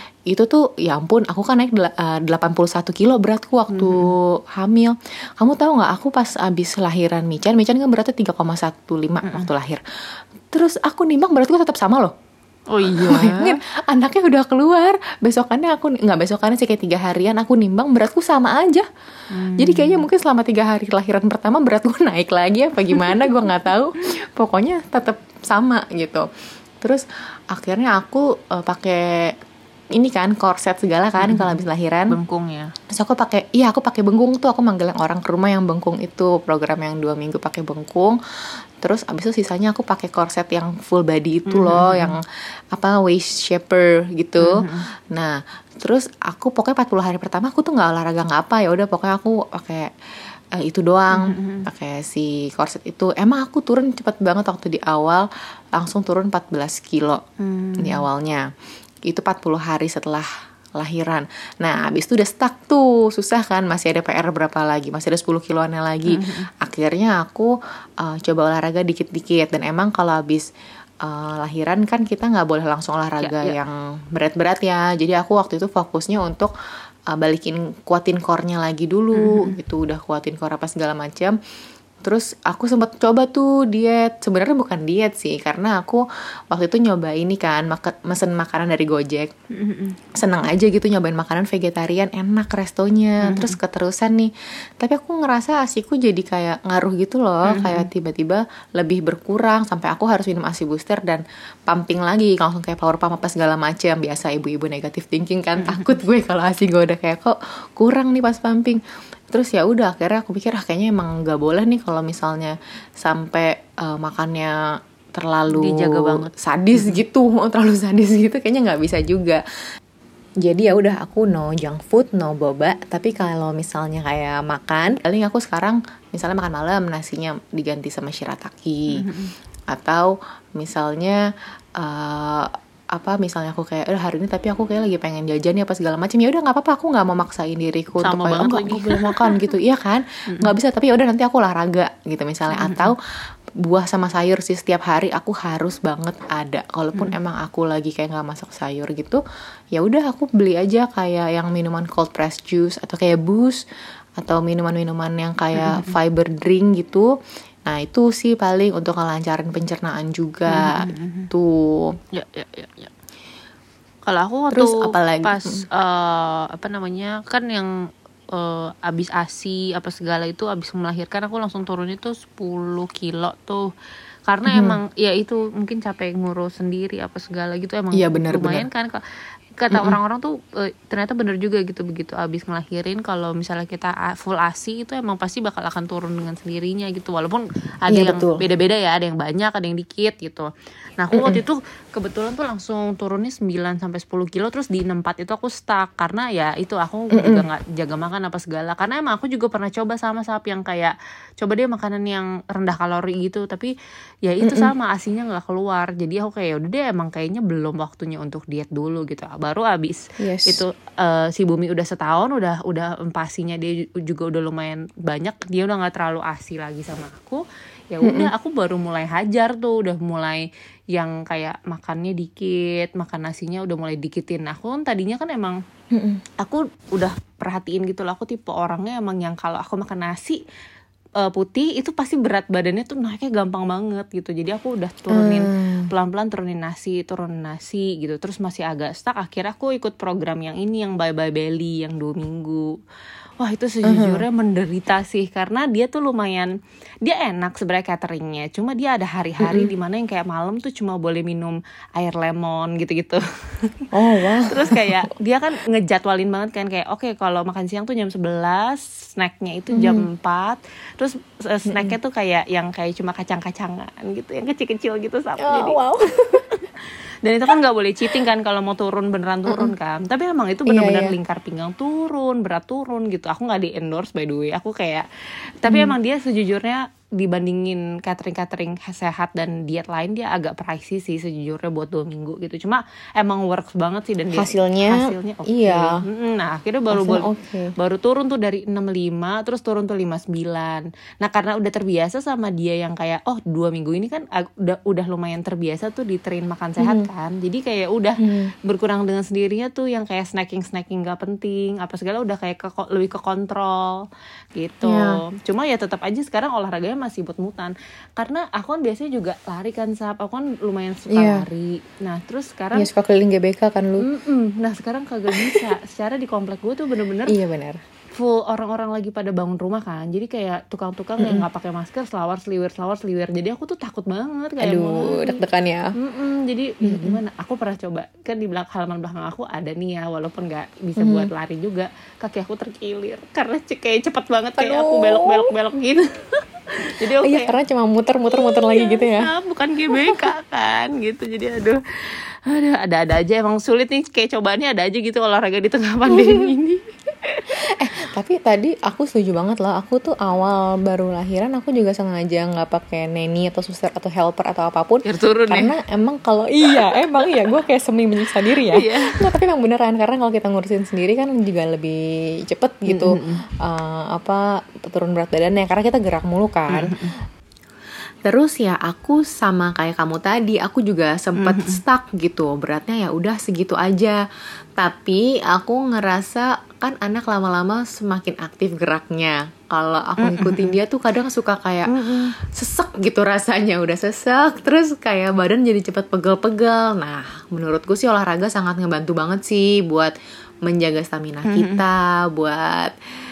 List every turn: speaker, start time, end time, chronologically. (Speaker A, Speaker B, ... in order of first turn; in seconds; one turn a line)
Speaker A: 0.3-9.8
Speaker B: 3.7-4.1
Speaker A: 10.5-12.1
Speaker B: 12.7-13.6
Speaker A: 12.8-18.9
Speaker B: 19.3-20.0
Speaker A: 19.6-26.2
Speaker A: 26.8-29.3
Speaker A: 29.9-32.2
Speaker B: 31.2-31.6
Speaker B: 32.1-32.7
Speaker A: 32.9-38.2
Speaker A: 38.8-42.2
Speaker B: 41.5-42.1
Speaker A: 42.7-49.9
Speaker B: 44.4-44.8
Speaker A: 50.5-57.2
Speaker B: 51.1-51.6
Speaker B: 57.4-58.0
Speaker A: 57.8-58.5
Speaker A: 59.0-70.5
Speaker B: 66.1-66.5
Speaker A: 71.0-76.5
Speaker B: 73.2-73.5
Speaker A: 77.1-81.4
Speaker B: 79.1-79.5
Speaker A: 82.0-89.3
Speaker B: 89.5-90.0
Speaker A: 90.2-108.8
Speaker B: 93.2-93.6
Speaker B: 97.5-97.9
Speaker B: 105.6-106.0
Speaker A: 109.3-114.6
Speaker A: 115.1-119.4
Speaker B: 115.5-117.0
Speaker A: 120.4-129.0
Speaker B: 128.9-129.3
Speaker A: 129.7-131.2
Speaker A: 131.8-143.0
Speaker B: 138.0-139.4
Speaker B: 142.5-142.9
Speaker A: 143.7-149.2
Speaker A: 149.7-153.6
Speaker A: 154.2-157.1
Speaker B: 155.5-155.9
Speaker A: 157.7-161.9
Speaker B: 160.5-161.3
Speaker B: 162.1-162.9
Speaker B: 164.0-167.7
Speaker A: 164.5-165.6
Speaker B: 168.3-173.7
Speaker B: 174.3-179.0
Speaker A: 174.5-174.8
Speaker A: 177.9-178.7
Speaker B: 179.6-203.7
Speaker A: 179.7-180.0
Speaker A: 187.9-188.4
Speaker A: 191.1-191.4
Speaker A: 197.1-197.4
Speaker B: 204.2-225.6
Speaker A: 204.4-204.7
Speaker A: 210.2-210.6
Speaker A: 218.0-218.3
Speaker A: 225.9-226.2
Speaker B: 226.4-230.4
Speaker B: 231.2-242.8
Speaker A: 235.1-235.9
Speaker B: 243.4-246.5
Speaker A: 243.8-244.2
Speaker B: 247.0-265.8
Speaker A: 249.4-249.7
Speaker A: 253.9-255.1
Speaker A: 259.7-260.1
Speaker A: 261.7-261.9
Speaker A: 265.4-266.6
Speaker B: 267.2-275.1
Speaker A: 269.5-269.7
Speaker A: 270.7-271.1
Speaker B: 275.6-304.0
Speaker A: 275.7-275.9
Speaker A: 284.3-286.0
Speaker A: 286.9-287.7
Speaker A: 296.8-297.1
Speaker A: 298.2-298.5
Speaker B: 304.5-312.9
Speaker A: 304.8-305.2
Speaker A: 311.1-311.4
Speaker A: 312.7-314.1
Speaker B: 314.0-317.3
Speaker A: 315.3-315.7
Speaker A: 317.3-317.8
Speaker B: 318.1-325.4
Speaker A: 321.2-321.4
Speaker A: 324.6-325.9
Speaker B: 326.0-337.5
Speaker A: 326.8-327.2
Speaker A: 331.0-331.3
Speaker A: 334.6-335.5
Speaker A: 337.2-339.3
Speaker B: 338.3-347.6
Speaker A: 340.0-340.2
Speaker A: 346.1-346.5
Speaker A: 347.6-366.9
Speaker B: 355.0-355.7
Speaker B: 356.7-357.5
Speaker B: 358.5-359.2
Speaker B: 362.9-363.4
Speaker B: 366.7-367.1
Speaker A: 368.2-374.2
Speaker B: 371.4-371.8
Speaker A: 374.8-390.1
Speaker B: 380.2-380.8
Speaker B: 381.9-382.3
Speaker A: 390.6-392.9
Speaker B: 391.4-391.8